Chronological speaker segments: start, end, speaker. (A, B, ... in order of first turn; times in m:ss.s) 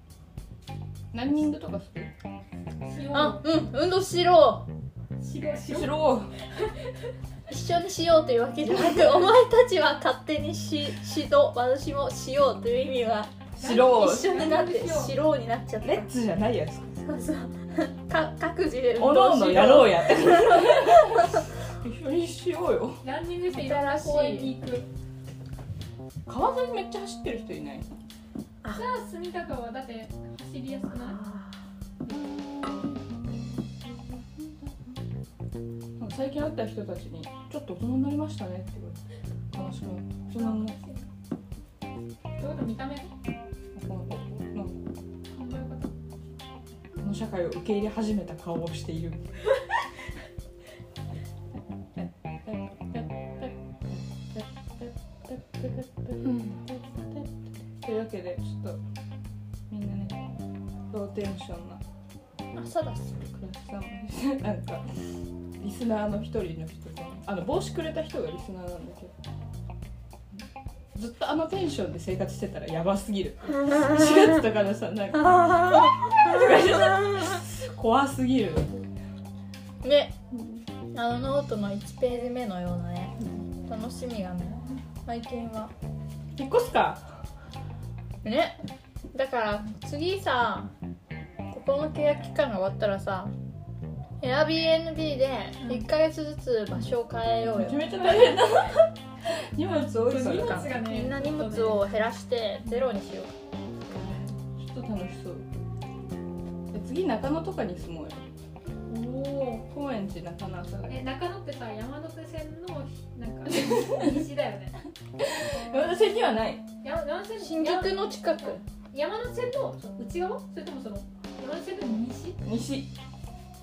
0:01.1-0:02.1 A
0:02.8-0:03.5 B
0:03.1-0:04.7 C
0:05.2-0:05.9 B
0:05.7-0:06.3 A
0:07.5-0:16.1 C
0:13.6-0:14.4 A
0:13.6-0:15.2 B
0:15.8-0:17.0 A
0:17.0-0:21.4 C
0:19.0-0:23.0 A
0:23.0-0:24.9 B
0:23.5-0:24.5 C
0:26.3-0:27.9 A
0:28.7-0:31.2 B
0:30.9-0:31.6 C
0:32.0-0:35.0 A
0:36.0-0:40.8 A
0:40.4-0:41.1 B
0:42.4-0:43.1 B
0:43.7-0:44.8 A
0:45.3-0:45.9 B
0:47.0-0:49.4 A
0:52.0-0:58.8 A
0:59.7-1:00.2 A
1:00.9-1:01.8 A
1:02.5-1:03.2 C
1:03.3-1:05.0 A
1:05.6-1:09.1 A
1:10.9-1:18.9 A
1:15.4-1:15.9 C
1:19.8-1:20.2 C
1:20.3-1:20.7 A
1:20.9-1:25.7 C
1:26.4-1:27.1 A
1:28.2-1:28.6 C
1:29.1-1:30.7 C
1:31.5-1:33.3 C
1:34.2-1:37.9 C
1:35.6-1:35.9 B
1:37.4-1:40.8 A
1:39.9-1:41.8 B
1:40.2-1:43.3 C
1:43.9-1:45.5 A
1:46.7-1:48.2 A
1:48.9-1:49.7 B
1:49.7-1:51.0 A
1:50.9-1:54.8 B
1:53.5-1:54.2 A
1:55.2-1:56.6 A
1:56.8-2:02.4 B
1:57.4-1:58.6 C
2:02.4-2:02.9 A